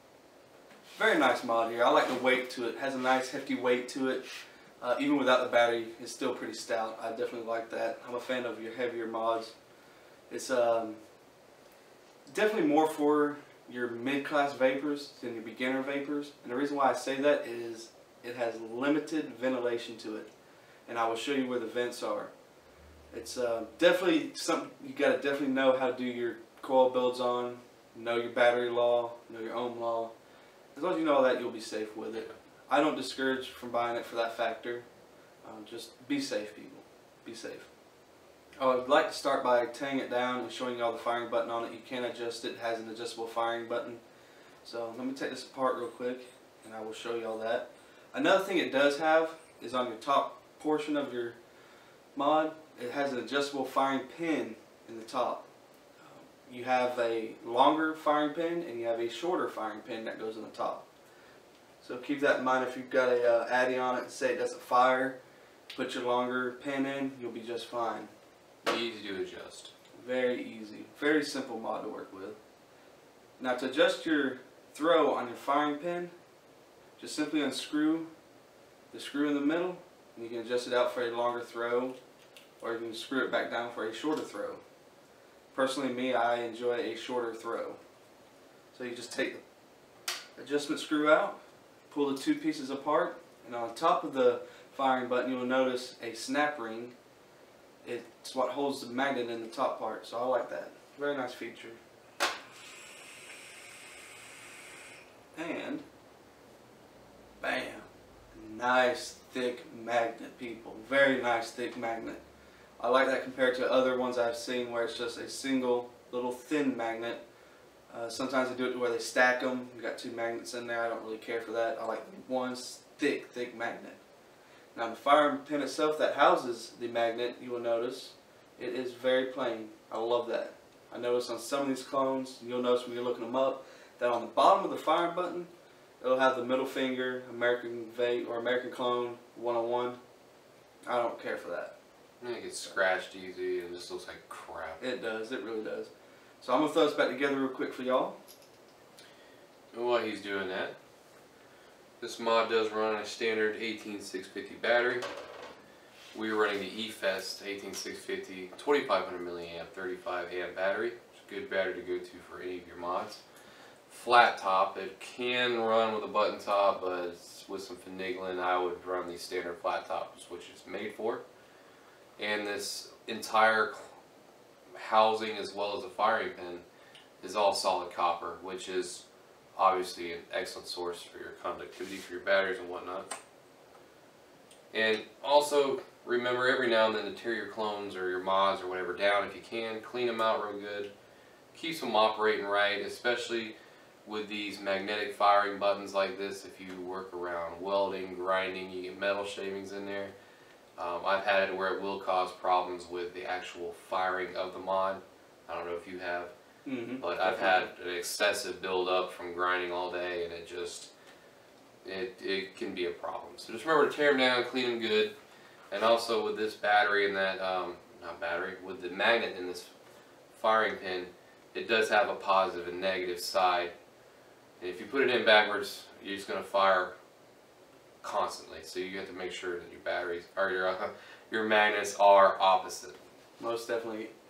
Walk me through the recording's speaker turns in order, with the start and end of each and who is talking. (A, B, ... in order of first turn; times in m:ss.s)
0:01.0-0:04.3 A
0:04.8-0:09.6 A
0:10.3-0:11.0 A
0:12.3-0:20.3 A
0:20.9-0:22.3 A
0:23.1-0:30.1 A
0:30.7-0:34.8 A
0:35.4-0:37.7 A
0:38.6-0:44.0 A
0:44.6-0:51.4 A
0:52.2-0:55.5 A
0:56.0-1:00.9 A
1:01.8-1:05.2 A
1:05.7-1:08.1 A
1:08.6-1:09.7 B
1:10.0-1:12.4 A
1:13.4-1:16.1 A
1:17.0-1:18.1 A
1:18.9-1:22.0 A
1:22.6-1:24.6 A
1:25.5-1:27.8 A
1:28.7-1:29.4 A
1:30.4-1:31.4 A
1:31.9-1:37.0 A
1:37.8-1:41.8 A
1:45.4-1:45.8 A
1:47.4-1:52.2 A
1:52.8-1:57.2 A
1:57.9-2:04.0 A
2:04.7-2:20.0 A
2:20.9-2:21.8 A
2:22.2-2:24.8 B
2:24.8-2:28.2 A
2:29.7-2:30.8 B
2:32.0-2:35.1 B
2:36.1-2:43.2 B
2:43.9-2:51.2 B
2:52.2-2:54.0 B
2:54.8-2:56.6 B
2:57.2-3:03.1 B
3:04.7-3:10.9 B
3:11.5-3:20.1 B
3:20.8-3:26.3 B
3:26.6-3:27.7 A
3:27.0-3:30.9 B
3:31.8-3:35.1 B
3:35.7-3:39.7 B
3:40.3-3:43.7 B
3:44.6-3:46.9 B
3:48.0-3:53.0 B
3:53.4-3:54.1 A